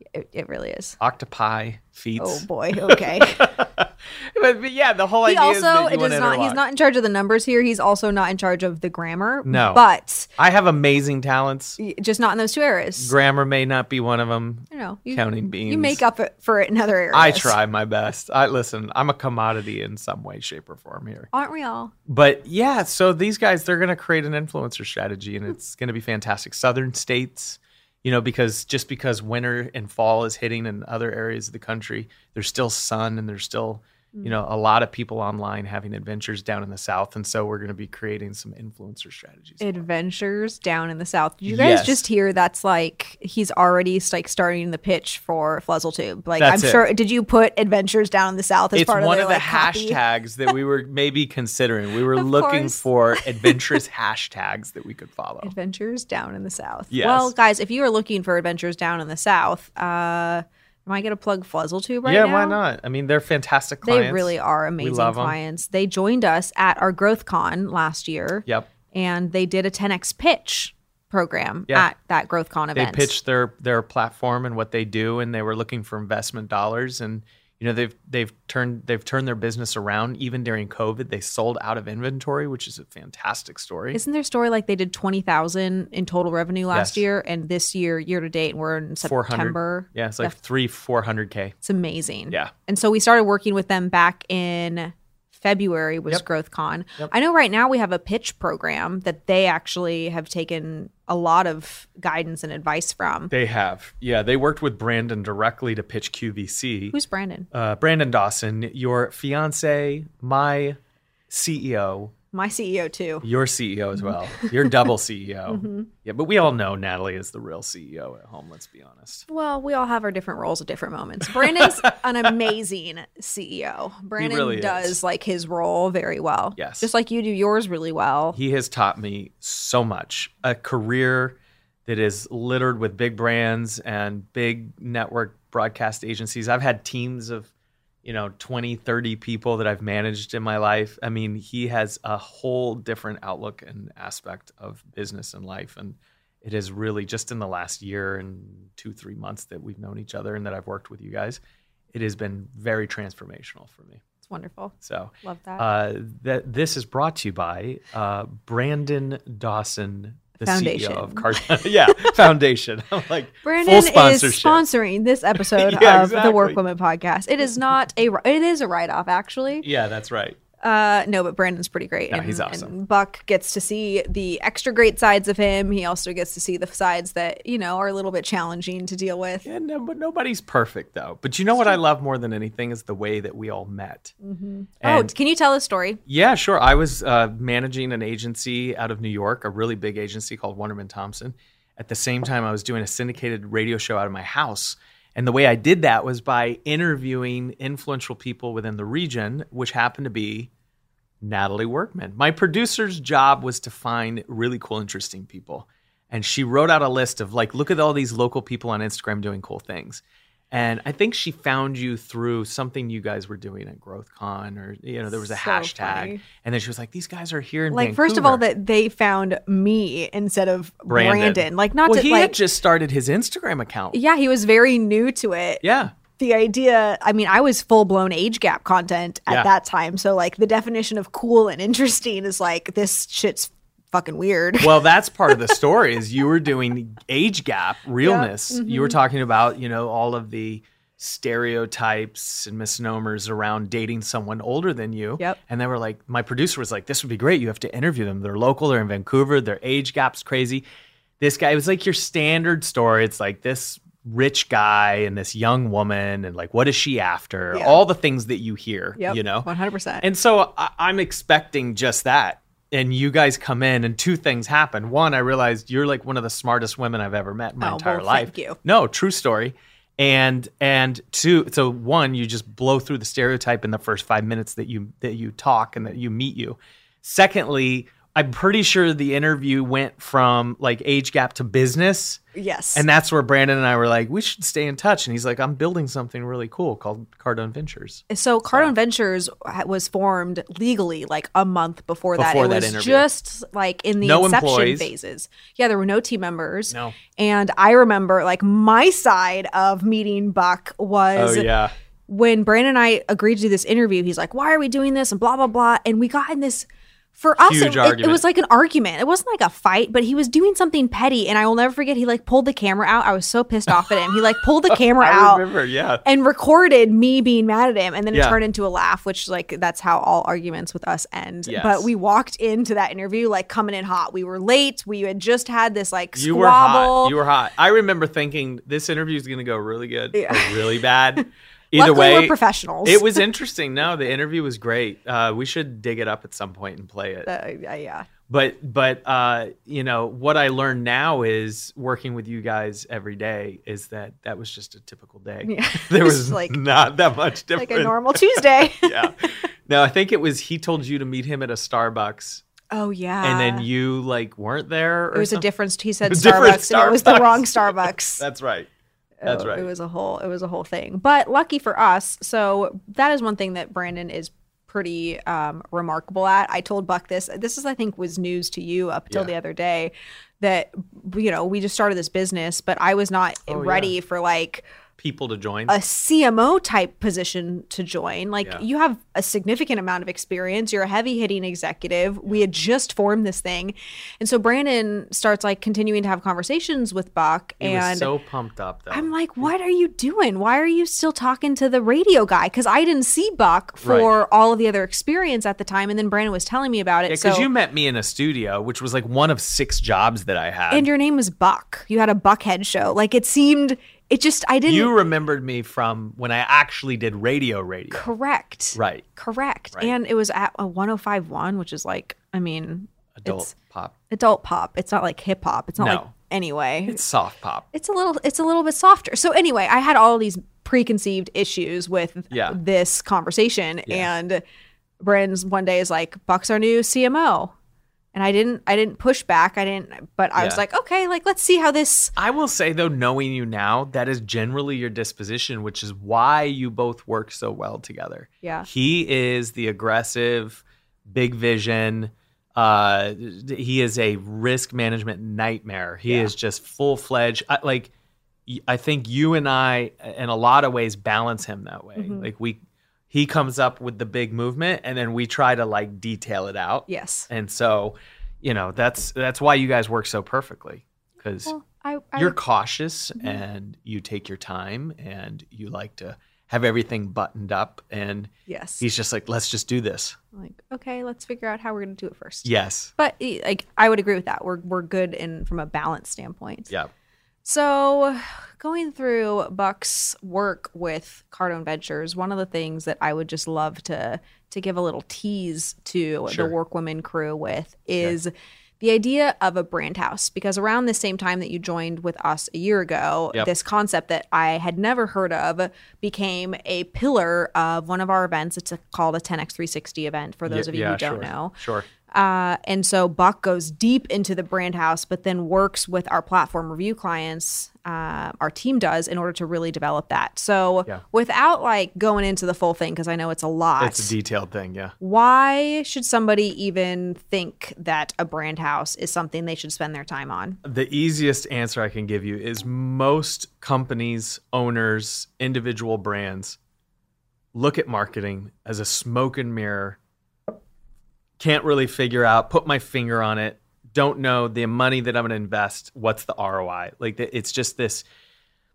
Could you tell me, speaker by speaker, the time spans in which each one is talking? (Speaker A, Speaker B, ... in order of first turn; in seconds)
Speaker A: 0.1-1.0, 2.2-3.6, 5.2-10.3, 11.8-13.1, 14.7-17.6, 21.3-21.9, 39.6-50.0, 52.1-53.6, 55.4-62.6, 63.8-73.1, 83.9-90.3, 91.6-103.3, 106.9-107.5, 112.3-113.2, 114.0-114.7, 115.5-115.9, 119.3-128.4, 154.2-155.6, 160.4-162.2, 163.4-169.7, 170.6-179.4, 184.2-186.0, 215.2-216.2, 217.7-222.3, 223.9-234.8, 238.0-239.0, 257.5-257.8, 259.0-260.1, 267.6-268.6, 282.3-282.8, 288.1-301.5, 302.1-315.5, 316.0-327.1, 330.1-331.2, 331.7-333.2, 337.2-338.1, 345.4-346.6, 347.5-349.1, 352.7-353.7, 355.1-358.2, 359.2-374.6, 375.7-388.1, 388.9-397.5, 400.7-404.9, 407.9-413.5, 414.1-417.0, 417.7-424.4, 425.0-427.5, 428.1-432.1, 446.1-446.3, 451.9-452.3, 456.9-457.3, 461.4-462.4, 468.5-468.8, 470.3-476.7, 477.4-501.6, 502.1-514.1, 515.0-520.6
Speaker B: 1.0-6.6, 9.4-9.8, 10.4-11.8, 13.0-16.0, 17.1-21.3, 22.1-39.8, 41.5-42.0, 46.4-46.8, 48.7-55.5, 56.9-57.3, 62.0-65.3, 72.7-84.0, 86.7-87.0, 89.0-91.5, 103.3-107.0, 107.5-110.8, 111.3-112.1, 113.2-119.2, 121.3-122.3, 124.2-125.0, 126.5-126.9, 128.3-137.5, 138.0-151.4, 151.9-154.0, 154.8-164.6, 165.3-166.6, 169.6-170.4, 172.1-172.7, 179.4-184.1, 184.8-185.1, 186.1-200.5, 201.2-218.4, 220.9-224.0, 225.6-225.9, 234.6-250.6, 251.2-259.5, 260.0-282.2, 282.7-288.7, 292.1-293.1, 294.0-294.9, 296.7-297.0, 301.1-301.7, 307.4-308.2, 313.8-316.0, 318.1-318.4, 321.4-321.9, 326.1-337.3, 338.3-352.4, 353.2-355.4, 356.1-358.7, 359.2-359.7, 373.5-373.9, 375.0-375.8, 387.6-389.5, 393.8-394.1, 397.1-400.9, 404.6-408.1, 408.7-409.0, 413.2-413.9, 415.8-416.1, 416.9-417.6, 422.3-422.6, 430.4-430.6, 432.1-447.9, 448.5-452.6, 453.1-461.5, 462.1-470.2, 472.4-472.9, 486.3-486.5, 500.5-501.9, 513.8-514.9, 520.6-526.6, 527.5-530.0, 531.4-538.0